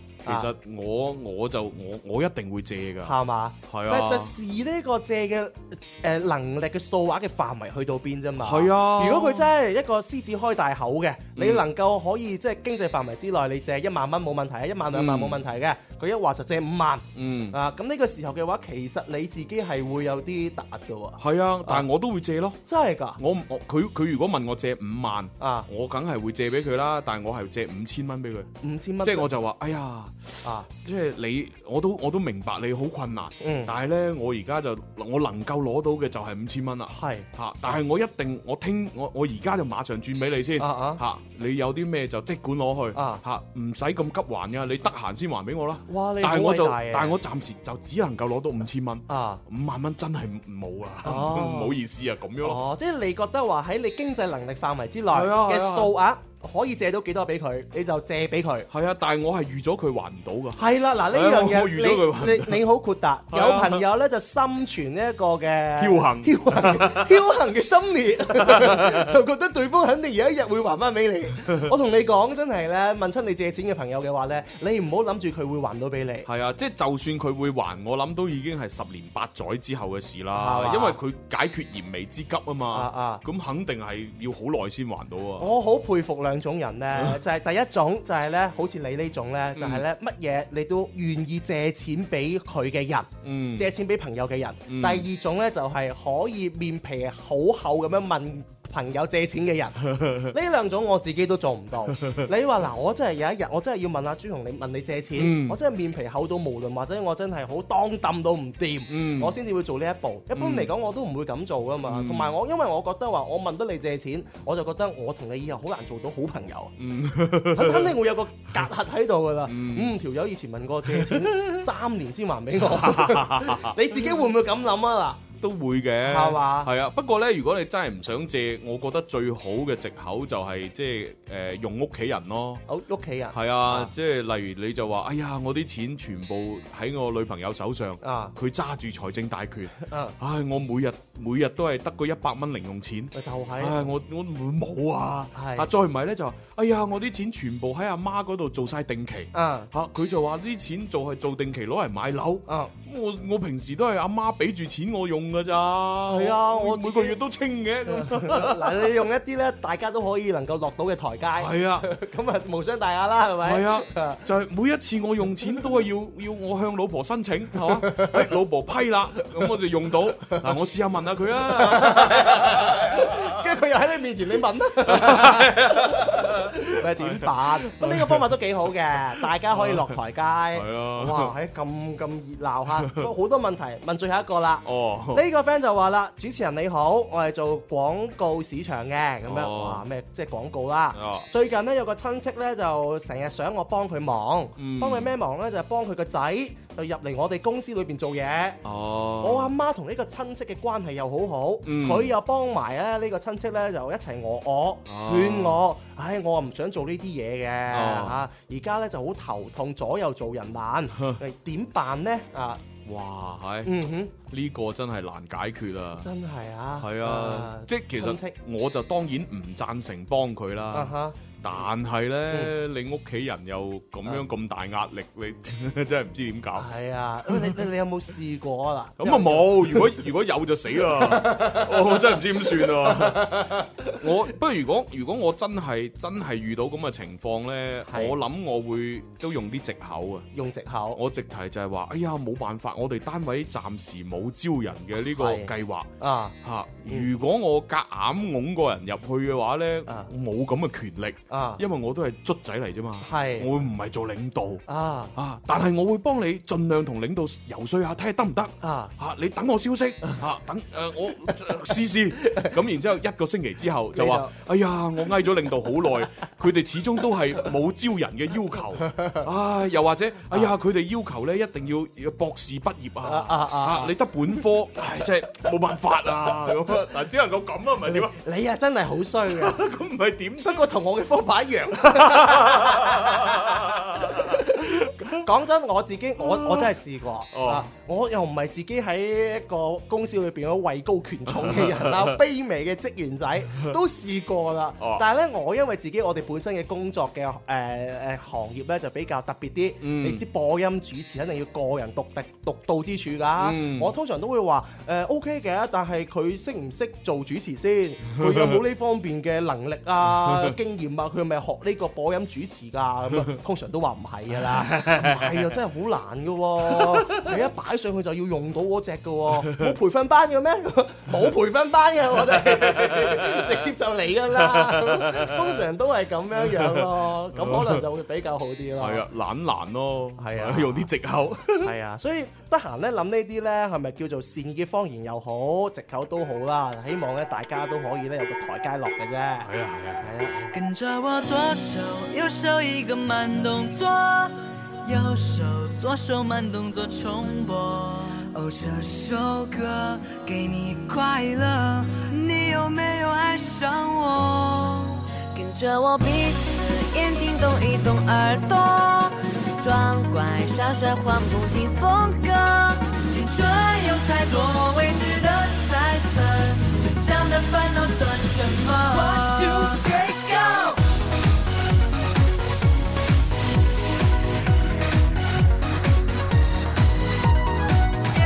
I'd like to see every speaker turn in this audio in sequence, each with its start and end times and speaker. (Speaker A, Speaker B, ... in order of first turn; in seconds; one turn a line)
Speaker A: 0.2-4.3
Speaker B: 3.0-21.8
Speaker A: 8.4-9.5
Speaker A: 11.3-11.7
Speaker A: 14.9-15.4
Speaker A: 17.1-17.6
Speaker A: 21.2-22.6
Speaker B: 22.7-23.2
Speaker A: 23.2-28.5
Speaker B: 25.4-25.7
Speaker B: 28.6-29.3
Speaker A: 29.0-52.6
Speaker B: 33.4-33.7
Speaker B: 36.9-37.2
Speaker B: 40.6-41.0
Speaker B: 42.9-43.2
Speaker B: 45.9-47.1
Speaker B: 49.1-49.4
Speaker B: 51.0-51.7
Speaker B: 52.4-58.7
Speaker A: 55.1-55.9
Speaker A: 58.7-62.6
Speaker B: 60.5-76.3
Speaker A: 63.3-63.8
Speaker A: 65.8-67.2
Speaker A: 68.3-69.1
Speaker A: 76.2-85.5
Speaker B: 80.3-81.0
Speaker B: 82.7-83.2
Speaker B: 85.4-116.7
Speaker A: 89.5-89.8
Speaker A: 93.2-93.7
Speaker A: 94.7-95.1
Speaker A: 99.9-100.3
Speaker A: 101.9-102.3
Speaker A: 105.1-105.6
Speaker A: 108.9-109.4
Speaker A: 110.3-110.7
Speaker A: 111.8-112.4
Speaker A: 116.8-118.0
Speaker B: 117.5-125.2
Speaker A: 119.4-119.9
Speaker A: 120.8-121.7
Speaker A: 122.6-124.3
Speaker A: 125.4-132.6
Speaker B: 126.0-126.7
Speaker B: 132.7-133.9
Speaker A: 133.3-158.9
Speaker B: 138.0-138.3
Speaker B: 139.8-140.1
Speaker B: 143.1-143.9
Speaker B: 145.3-145.7
Speaker B: 149.3-149.7
Speaker B: 156.1-157.2
Speaker B: 157.8-164.2
Speaker A: 161.4-161.9
Speaker A: 163.4-173.3
Speaker B: 167.8-168.3
Speaker B: 171.5-198.6
Speaker A: 174.8-178.3
Speaker A: 179.2-180.0
Speaker A: 180.5-181.3
Speaker A: 184.6-185.2
Speaker A: 189.2-189.8
Speaker A: 190.9-191.3
Speaker A: 194.6-195.1
Speaker A: 198.6-199.5
Speaker B: 199.2-212.6
Speaker A: 201.6-202.1
Speaker A: 204.9-205.6
Speaker A: 207.7-208.2
Speaker A: 210.9-211.2
Speaker A: 212.8-213.7
Speaker B: 213.6-214.1
Speaker A: 214.2-216.1
Speaker B: 216.0-218.3
Speaker A: 216.8-226.7
Speaker B: 220.7-221.2
Speaker B: 226.6-230.0
Speaker A: 227.3-227.6
Speaker A: 229.0-240.3
Speaker B: 230.8-233.9
Speaker B: 237.9-238.1
Speaker B: 240.3-241.0
Speaker A: 240.9-245.9
Speaker B: 245.1-246.3
Speaker A: 246.4-254.6
Speaker B: 251.3-251.6
Speaker B: 253.0-253.5
Speaker B: 254.7-255.1
Speaker A: 255.1-278.1
Speaker B: 258.6-258.9
Speaker B: 262.2-262.5
Speaker B: 263.9-264.3
Speaker B: 268.8-269.2
Speaker B: 273.0-273.9
Speaker B: 277.9-279.6
Speaker A: 279.3-280.7
Speaker B: 280.4-283.5
Speaker A: 281.7-285.2
Speaker B: 284.0-329.0
Speaker A: 286.2-286.8
Speaker A: 287.3-287.7
Speaker A: 291.3-292.2
Speaker A: 299.8-300.2
Speaker A: 303.4-303.9
Speaker A: 308.1-308.6
Speaker A: 310.2-310.5
Speaker A: 314.3-315.5
Speaker A: 316.6-317.4
Speaker A: 319.3-319.7
Speaker A: 322.2-323.7
Speaker A: 324.3-325.6
Speaker A: 326.3-327.8
Speaker A: 328.8-331.7
Speaker B: 330.2-330.9
Speaker B: 331.6-340.5
Speaker A: 339.4-340.1
Speaker C: 340.5-355.0
Speaker D: 355.3-362.7
Speaker C: 362.1-370.8